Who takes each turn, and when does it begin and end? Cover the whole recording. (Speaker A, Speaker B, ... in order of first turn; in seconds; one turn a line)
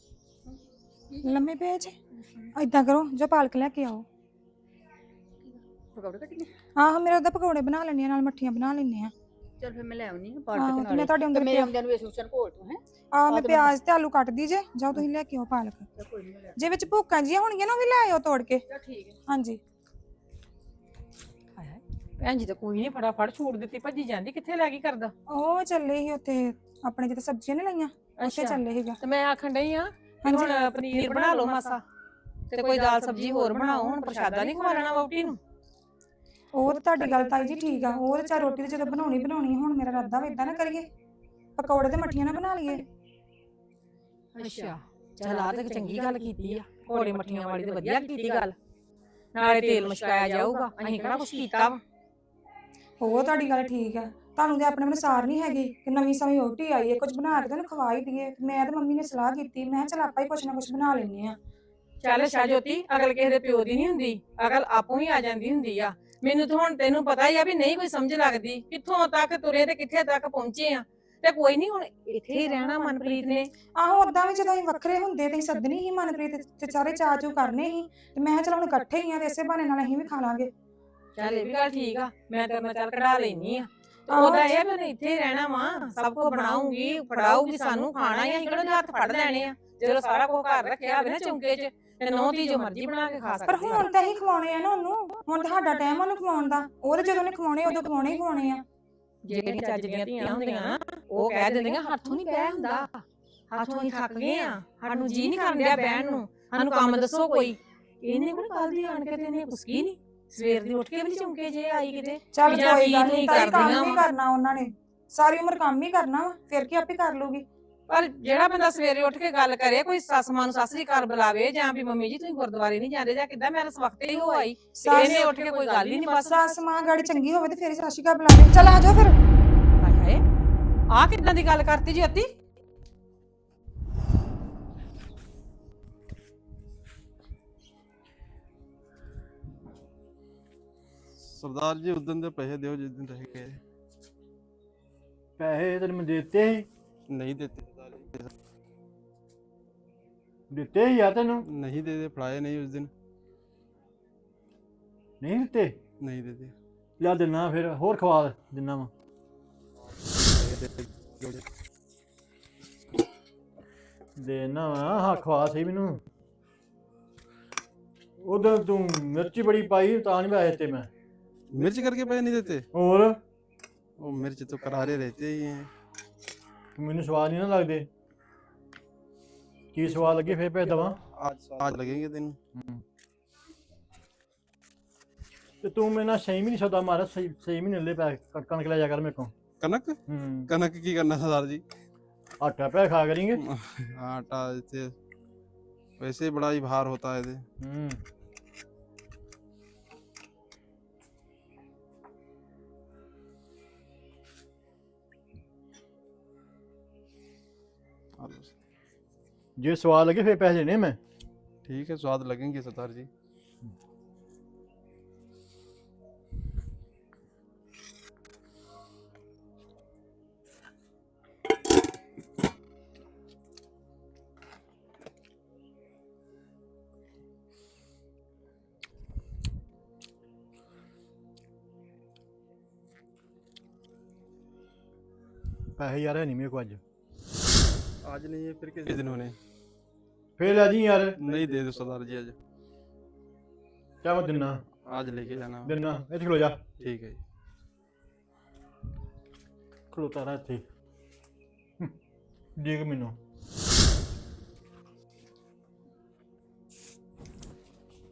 Speaker A: 1.2-1.9
Speaker A: 2.5-4.0
Speaker B: 5.5-6.5
Speaker A: 6.8-9.1
Speaker B: 9.6-13.7
Speaker A: 10.5-11.8
Speaker A: 13.1-15.9
Speaker B: 16.0-16.6
Speaker A: 16.6-18.6
Speaker B: 18.7-19.2
Speaker A: 19.3-19.6
Speaker C: 21.6-25.1
Speaker A: 25.3-29.0
Speaker C: 28.2-31.8
Speaker A: 30.2-31.5
Speaker C: 32.5-35.4
Speaker A: 36.5-40.9
Speaker A: 41.6-42.9
Speaker C: 44.4-48.5
Speaker C: 49.3-51.8
Speaker B: 50.5-51.4
Speaker A: 53.0-61.4
Speaker C: 62.0-73.5
Speaker B: 72.3-73.0
Speaker A: 73.8-80.5
Speaker C: 81.2-93.8
Speaker A: 84.1-84.6
Speaker A: 93.5-98.6
Speaker C: 99.3-114.1
Speaker A: 112.3-117.5
Speaker C: 117.9-126.3
Speaker A: 124.8-129.2
Speaker C: 129.8-130.2
Speaker C: 130.9-132.3
Speaker D: 141.2-143.6
Speaker E: 145.4-146.7
Speaker D: 147.1-148.3
Speaker E: 150.5-151.5
Speaker D: 151.4-152.9
Speaker E: 155.2-155.8
Speaker D: 156.0-156.5
Speaker E: 157.0-158.9
Speaker D: 160.1-161.4
Speaker E: 164.2-166.0
Speaker E: 168.2-170.9
Speaker D: 171.5-172.7
Speaker E: 172.7-173.2
Speaker D: 174.0-175.7
Speaker E: 176.8-177.9
Speaker E: 179.7-181.0
Speaker D: 181.2-182.4
Speaker E: 182.6-182.8
Speaker E: 185.6-189.3
Speaker D: 189.6-191.6
Speaker E: 190.1-190.5
Speaker E: 192.4-193.4
Speaker D: 193.4-194.9
Speaker D: 196.0-197.4
Speaker E: 197.6-198.0
Speaker D: 208.2-208.5
Speaker E: 209.6-211.0
Speaker D: 211.7-213.1
Speaker E: 235.8-236.8
Speaker D: 238.0-239.4
Speaker E: 240.4-241.2
Speaker D: 241.2-242.3
Speaker E: 244.0-244.6
Speaker D: 244.8-245.8
Speaker E: 245.6-246.6
Speaker D: 246.8-247.2
Speaker E: 249.9-250.7
Speaker E: 252.6-253.2